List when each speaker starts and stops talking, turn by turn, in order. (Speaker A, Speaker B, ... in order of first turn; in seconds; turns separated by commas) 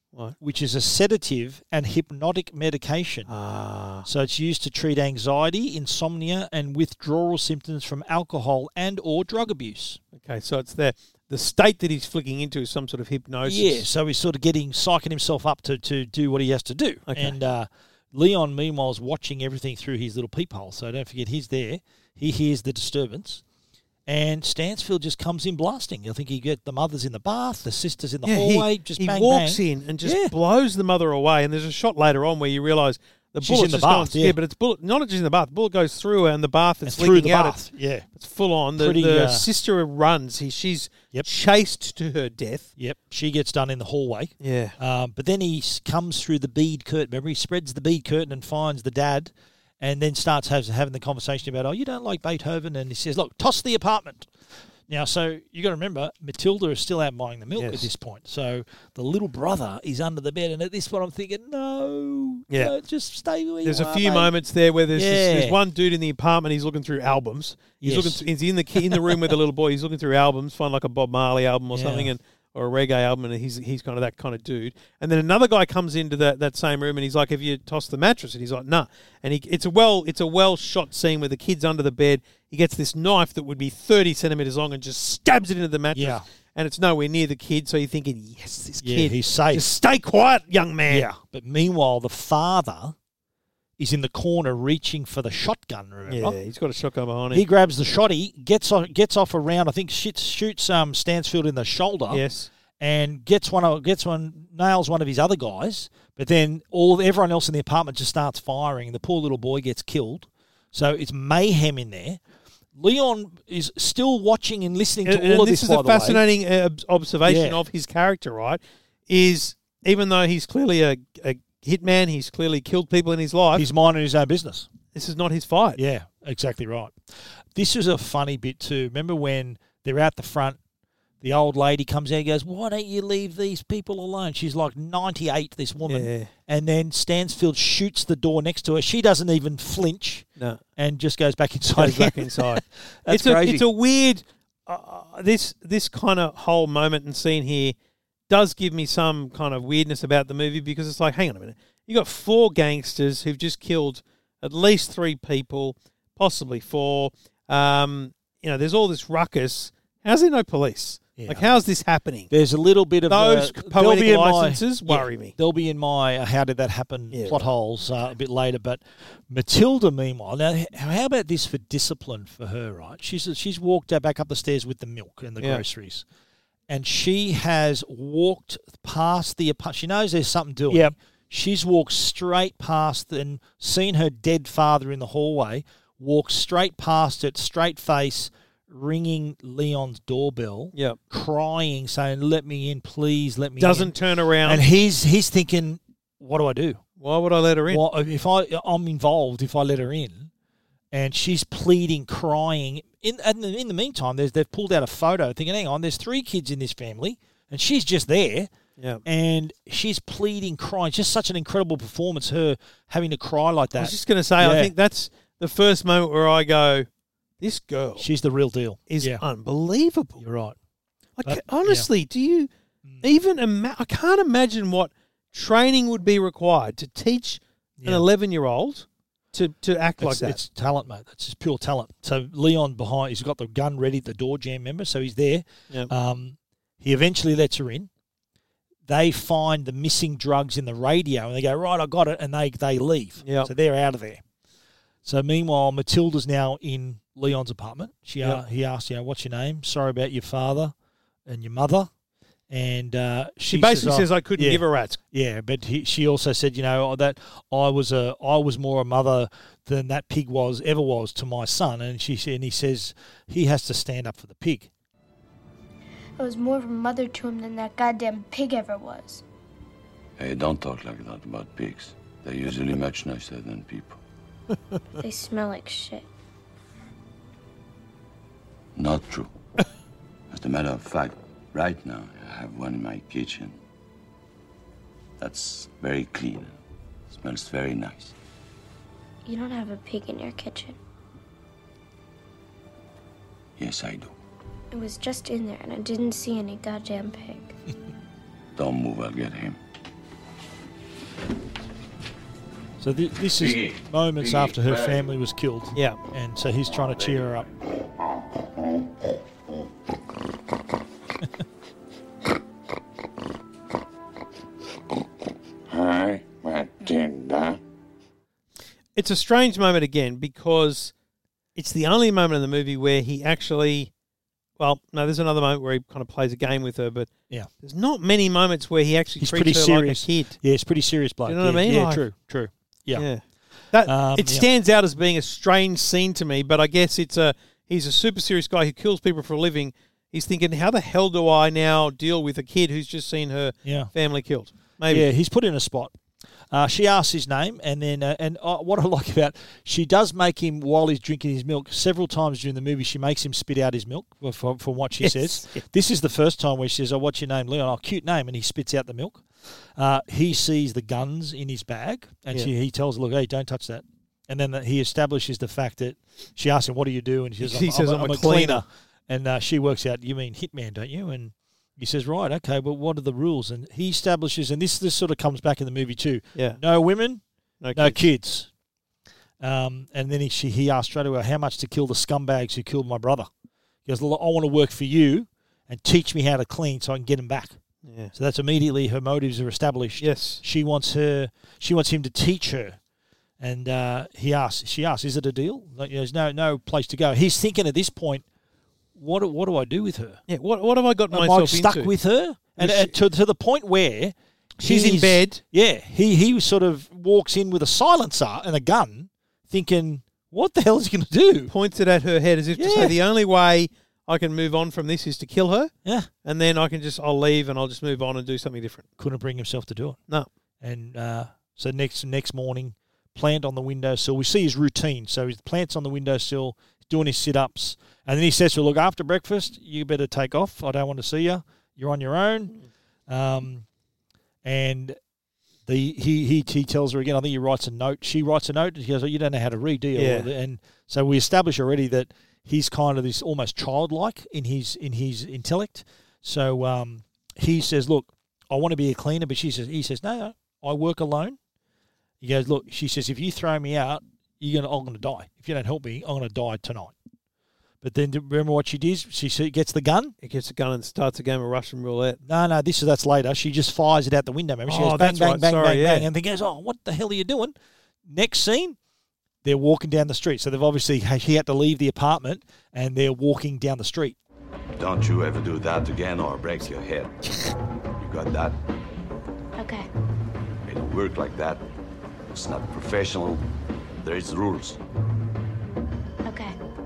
Speaker A: 0.4-3.3, Speaker B: 3.3-4.1, Speaker A: 4.0-10.0, Speaker B: 10.2-13.8, Speaker A: 13.4-23.4, Speaker B: 17.1-17.4, Speaker A: 24.1-30.3, Speaker B: 28.2-37.6, Speaker A: 33.4-34.4, Speaker A: 36.9-38.1, Speaker B: 38.1-42.7, Speaker A: 38.8-39.5, Speaker A: 42.8-54.3, Speaker B: 44.4-44.8, Speaker A: 54.9-64.3, Speaker B: 57.6-57.9, Speaker B: 63.6-91.1, Speaker A: 64.9-65.5, Speaker A: 67.8-68.2, Speaker A: 68.8-69.2, Speaker A: 71.7-72.1, Speaker A: 85.9-86.2, Speaker A: 88.8-89.7, Speaker A: 90.9-92.9, Speaker A: 93.8-96.4, Speaker B: 96.1-97.4, Speaker A: 97.3-102.2, Speaker B: 102.1-102.5, Speaker A: 102.8-112.2, Speaker A: 112.7-116.2, Speaker B: 115.0-123.7, Speaker A: 117.2-117.6, Speaker A: 123.5-124.7, Speaker B: 124.9-125.8, Speaker A: 125.8-126.9, Speaker A: 127.5-130.6, Speaker A: 131.2-143.6, Speaker B: 135.8-136.3, Speaker B: 141.8-147.8, Speaker B: 148.3-162.3, Speaker A: 161.2-161.5, Speaker A: 162.3-176.0, Speaker B: 163.1-165.3, Speaker B: 167.1-167.4, Speaker A: 176.7-193.9, Speaker B: 193.6-194.6, Speaker A: 194.4-196.8, Speaker B: 197.0-197.8, Speaker A: 197.7-200.3, Speaker A: 200.9-208.5, Speaker A: 209.0-214.7, Speaker B: 213.8-216.9, Speaker B: 217.4-218.1, Speaker A: 218.0-219.2, Speaker B: 218.9-220.2, Speaker A: 220.2-220.5, Speaker B: 221.2-222.5, Speaker A: 221.2-221.9, Speaker B: 223.0-230.4, Speaker A: 230.0-237.9, Speaker A: 238.9-244.2, Speaker B: 243.2-243.5, Speaker A: 245.0-250.7, Speaker A: 251.2-251.9, Speaker A: 252.5-264.7, Speaker B: 253.5-255.0, Speaker C: 266.2-269.2, Speaker D: 270.2-274.0, Speaker C: 275.0-276.1, Speaker D: 278.8-279.3, Speaker D: 280.3-283.6, Speaker D: 285.2-286.6, Speaker D: 287.1-288.1, Speaker C: 289.2-290.8, Speaker D: 293.6-294.1, Speaker C: 294.7-297.5, Speaker D: 298.6-299.6, Speaker A: 302.8-307.5, Speaker D: 303.4-304.8, Speaker D: 315.7-317.6, Speaker B: 318.9-320.9, Speaker B: 321.6-323.9, Speaker B: 324.6-327.1, Speaker B: 327.6-330.4, Speaker A: 329.2-333.1, Speaker B: 331.3-332.0, Speaker B: 332.9-345.1, Speaker A: 333.8-334.5, Speaker A: 343.6-343.9, Speaker A: 344.9-345.9, Speaker A: 346.5-359.2, Speaker B: 355.0-355.6, Speaker A: 359.8-377.2, Speaker B: 367.4-368.6, Speaker B: 376.3-376.6, Speaker B: 377.6-378.0, Speaker A: 377.7-378.5, Speaker A: 379.4-383.3, Speaker A: 383.9-387.6, Speaker B: 387.8-388.1, Speaker A: 388.1-392.8, Speaker B: 390.0-390.4, Speaker A: 393.4-398.2, Speaker A: 398.9-400.2, Speaker B: 400.3-401.9, Speaker A: 401.1-411.5, Speaker B: 402.6-402.9, Speaker B: 404.6-405.4, Speaker B: 411.5-415.7, Speaker A: 412.6-412.9, Speaker B: 416.2-418.9, Speaker A: 419.0-420.0, Speaker A: 420.6-432.6, Speaker A: 433.1-433.6, Speaker A: 434.4-435.0, Speaker A: 435.6-451.4, Speaker B: 439.9-440.3, Speaker A: 452.2-456.9, Speaker A: 457.8-460.1, Speaker B: 460.2-462.2, Speaker A: 462.2-467.5, Speaker B: 464.7-466.1, Speaker A: 468.1-468.8, Speaker A: 469.4-474.2, Speaker D: 474.8-477.1, Speaker D: 478.0-478.6, Speaker C: 479.6-479.9, Speaker D: 480.6-481.6, Speaker D: 482.3-483.4, Speaker D: 484.0-484.8, Speaker C: 486.2-486.5